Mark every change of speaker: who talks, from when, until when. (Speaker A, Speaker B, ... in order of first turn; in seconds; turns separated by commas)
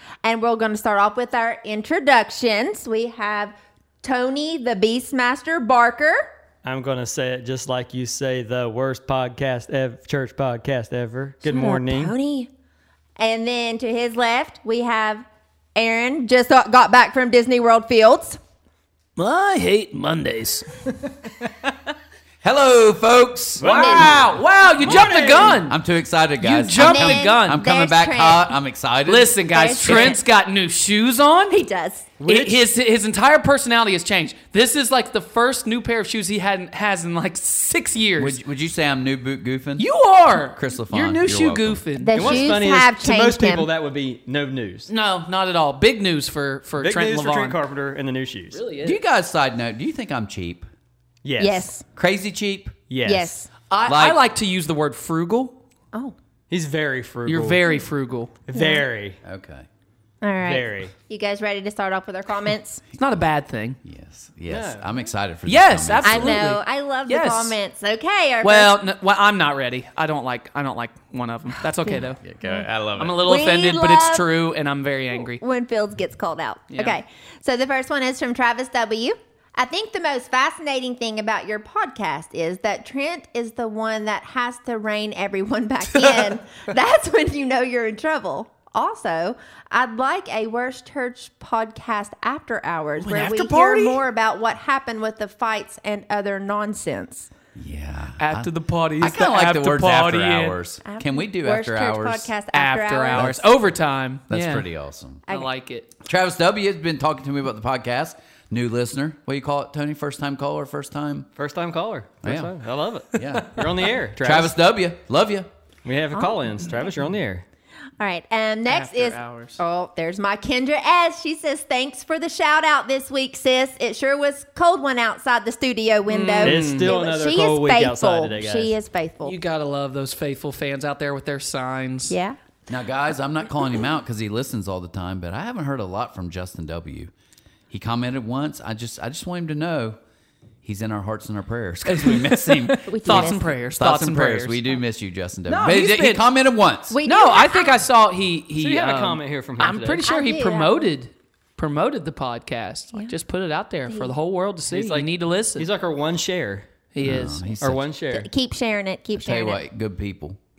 Speaker A: 0.2-6.3, Speaker B: 6.6-12.2, Speaker A: 11.4-12.5, Speaker A: 13.2-18.4, Speaker C: 19.2-20.8, Speaker D: 22.4-23.7, Speaker B: 23.6-25.6, Speaker C: 23.6-25.8, Speaker A: 23.6-24.2, Speaker D: 25.7-30.1, Speaker C: 26.4-27.6, Speaker A: 26.8-28.5, Speaker C: 29.1-31.6, Speaker A: 29.5-30.2, Speaker A: 31.5-32.1, Speaker B: 32.2-32.6, Speaker C: 32.2-38.4, Speaker D: 38.2-39.9, Speaker C: 39.8-42.5, Speaker D: 40.5-41.8, Speaker A: 42.0-43.7, Speaker B: 42.1-44.9, Speaker C: 44.9-47.6, Speaker B: 46.8-48.6, Speaker C: 48.5-49.0, Speaker D: 48.8-50.7, Speaker B: 51.2-51.7, Speaker A: 51.4-51.9, Speaker D: 52.0-52.8, Speaker B: 52.9-53.4, Speaker A: 53.0-53.5, Speaker C: 53.7-55.6, Speaker D: 53.9-54.2, Speaker B: 56.5-57.6, Speaker C: 57.2-58.4, Speaker B: 58.5-59.2, Speaker A: 58.5-58.8, Speaker D: 59.2-59.7, Speaker A: 60.2-62.8, Speaker B: 60.4-60.9, Speaker C: 63.0-63.8, Speaker D: 63.8-66.4, Speaker B: 64.5-64.9, Speaker C: 65.5-67.6, Speaker A: 66.0-68.8, Speaker C: 68.4-72.2, Speaker A: 71.8-72.7, Speaker D: 72.2-73.2, Speaker C: 73.0-75.4, Speaker A: 73.2-74.3, Speaker A: 75.2-97.3, Speaker C: 76.7-77.0, Speaker C: 93.0-94.0, Speaker D: 97.5-102.3, Speaker C: 98.2-100.6, Speaker A: 100.8-103.3, Speaker C: 102.5-104.7, Speaker D: 103.1-103.5, Speaker D: 104.3-105.2, Speaker C: 105.3-105.9, Speaker D: 106.0-111.3, Speaker B: 111.4-114.5, Speaker D: 112.2-112.5, Speaker D: 113.1-115.5, Speaker B: 115.8-117.5, Speaker A: 116.1-116.7, Speaker A: 118.0-129.3, Speaker C: 118.7-119.6, Speaker C: 126.1-127.0, Speaker B: 126.4-128.8, Speaker C: 129.2-132.2, Speaker A: 132.1-132.4, Speaker D: 132.7-137.1, Speaker D: 137.7-140.0, Speaker D: 140.6-147.0, Speaker C: 141.9-144.6, Speaker A: 142.9-143.6, Speaker C: 145.5-146.3, Speaker A: 146.9-147.8, Speaker C: 147.1-155.7, Speaker B: 148.6-150.1, Speaker A: 150.1-150.9, Speaker A: 153.9-154.2, Speaker B: 154.7-156.7, Speaker C: 156.9-157.5, Speaker D: 157.0-157.8, Speaker B: 157.6-158.3, Speaker A: 158.1-159.6, Speaker D: 159.2-160.4